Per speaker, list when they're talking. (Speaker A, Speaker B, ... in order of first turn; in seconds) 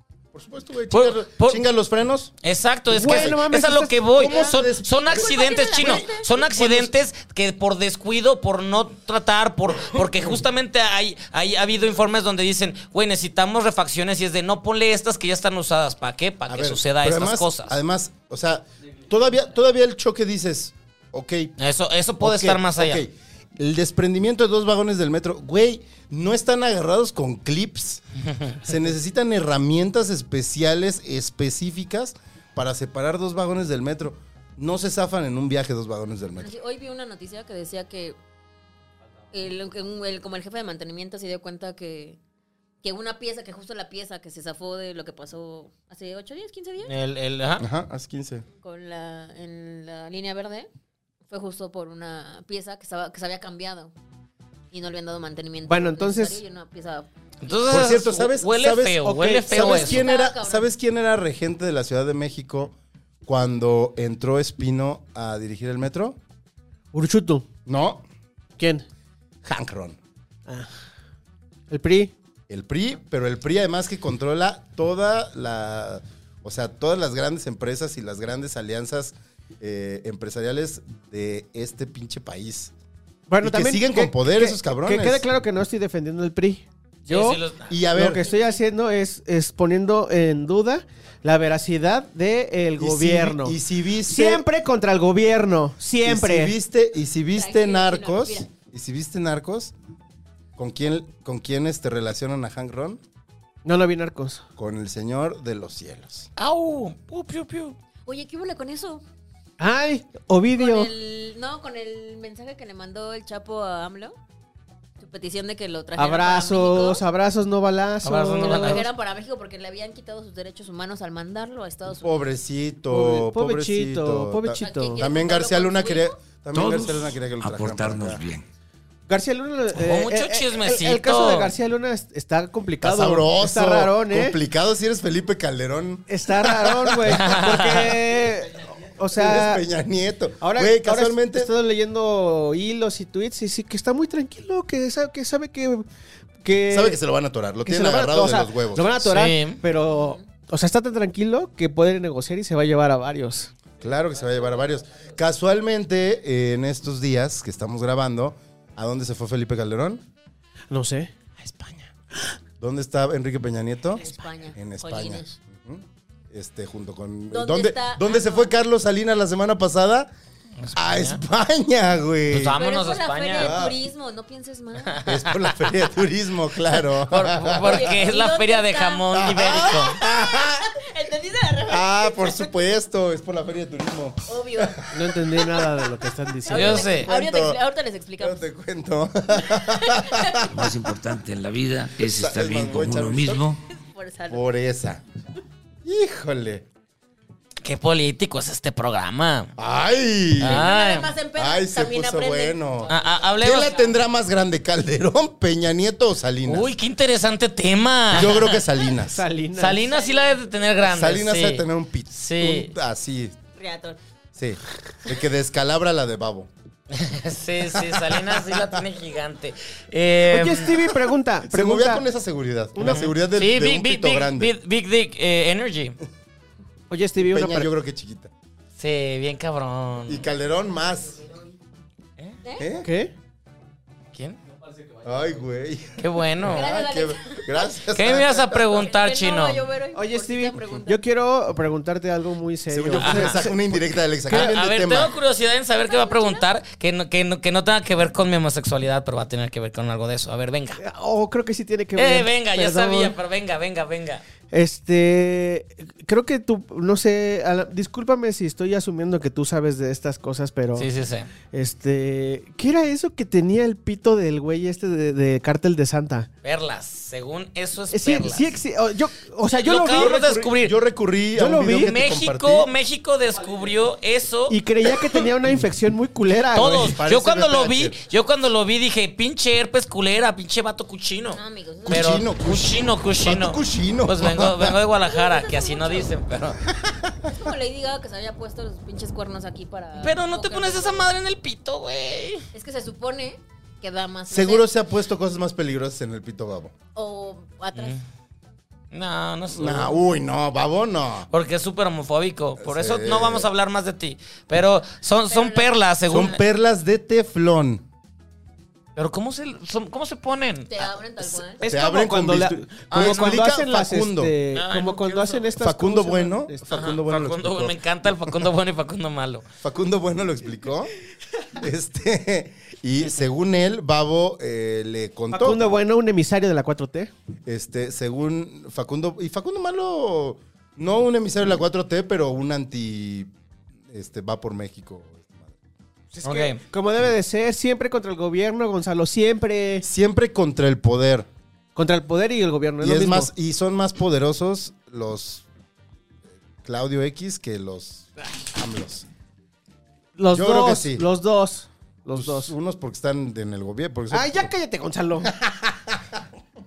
Speaker A: 0.3-2.3, 4.1-7.0, 16.5-21.5, 22.2-28.0, 28.5-36.5, 47.6-48.5, 57.7-62.7, 63.2-66.2, 67.7-68.0, 69.4-70.0, 72.5-82.7, 83.4-85.2, 87.7-88.2, 92.8-94.4, 96.0-99.7, 100.6-103.0, 104.6-106.3, 122.0-128.2, 132.8-137.3, 139.1-141.5, 146.7-149.2, 153.8-160.0, 161.4-161.9, 162.6-170.1, 170.7-172.6, 173.3-173.8, 175.0-177.9, 179.2-180.7, 181.7-185.1, 186.7-187.6, 188.2-190.7, 192.0-193.5, 194.3-195.0, 195.8-196.7, 199.6-200.7, 201.3-206.7, 208.1-209.2, 210.8-213.4, 214.3-216.5, 217.8-218.8, 221.4-224.5, 227.2-228.3, 230.1-231.3, 232.6-232.9, 235.0-238.7, 242.7-245.1, 269.9-272.7, 276.6-278.0, 281.9-284.8, 294.3-296.7, 299.5-301.3, 302.6-303.5, 306.1-307.8, 311.2-314.3, 315.6-318.4, 319.6-320.9, 321.6-325.7, 327.4-333.3, 333.9-335.5, 339.8-341.3, 342.8-345.4, 346.6-349.1, 350.3-351.1, 352.1-354.5, 355.2-356.2
Speaker B: 0.9-1.6, 2.4-17.7, 21.6-23.0, 46.8-47.6, 57.4-60.0, 87.1-87.7, 106.4-107.8, 118.0-118.8, 129.7-131.5, 137.1-138.0, 149.0-149.6, 170.6-171.2, 172.3-173.5, 174.8-175.8, 177.1-180.0, 186.5-187.1, 197.6-199.5, 200.4-201.1, 202.9-203.8, 206.4-208.6, 209.5-212.7, 216.9-220.9, 222.8-226.0, 228.8-230.2, 234.1-234.4, 236.0-236.7, 237.9-239.7, 243.0-243.4, 244.3-250.8, 251.9-254.2, 260.7-261.3, 266.4-268.6, 269.6-270.8, 271.8-274.6, 276.5-286.6, 290.0-292.5, 297.7-298.0, 298.9-300.0, 301.3-306.4, 308.9-310.9, 312.9-313.5, 314.5-315.5, 316.7-319.4, 336.2-336.6
Speaker C: 2.9-4.4, 55.6-56.4, 59.0-59.6, 66.9-67.5, 68.6-68.8, 71.7-72.1, 83.3-87.4, 87.9-96.5, 103.6-104.4, 109.6-110.9, 116.0-118.8, 122.9-125.0, 129.1-134.4, 136.1-139.6, 140.4-145.8, 146.4-147.0, 147.7-153.5, 160.7-161.1, 184.9-186.8, 209.0-209.8, 220.2-222.0, 222.7-223.1, 226.9-227.7, 232.8-233.1, 239.9-243.5, 250.8-253.1, 254.5-260.9, 261.5-266.3, 267.9-270.2, 271.3-272.0, 274.5-276.9, 311.6-316.9, 325.3-327.1, 336.1-339.8, 341.8-343.3, 350.2-352.5, 354.1-355.3
Speaker D: 5.0-6.2, 36.4-38.2, 39.3-42.2, 42.8-46.9, 48.6-50.7, 51.3-53.9, 54.7-57.6, 59.6-60.7, 97.3-98.5, 108.0-109.0, 110.5-114.2, 115.0-117.0, 118.4-122.3, 124.6-126.1, 149.9-150.2, 163.9-165.3, 167.3-168.5, 172.6-175.0, 177.6-182.5, 184.3-185.8, 186.4-188.4, 189.4-190.5, 193.8-194.5, 200.4-203.9, 209.8-210.5, 213.6-214.0, 232.4-232.7, 236.4-237.7, 238.7-241.0, 245.7-246.5, 281.3-282.2, 285.1-286.1, 287.2-291.1, 292.5-294.7, 296.9-297.9, 305.3-305.7, 310.7-311.6
Speaker E: 126.5-128.4, 190.5-193.6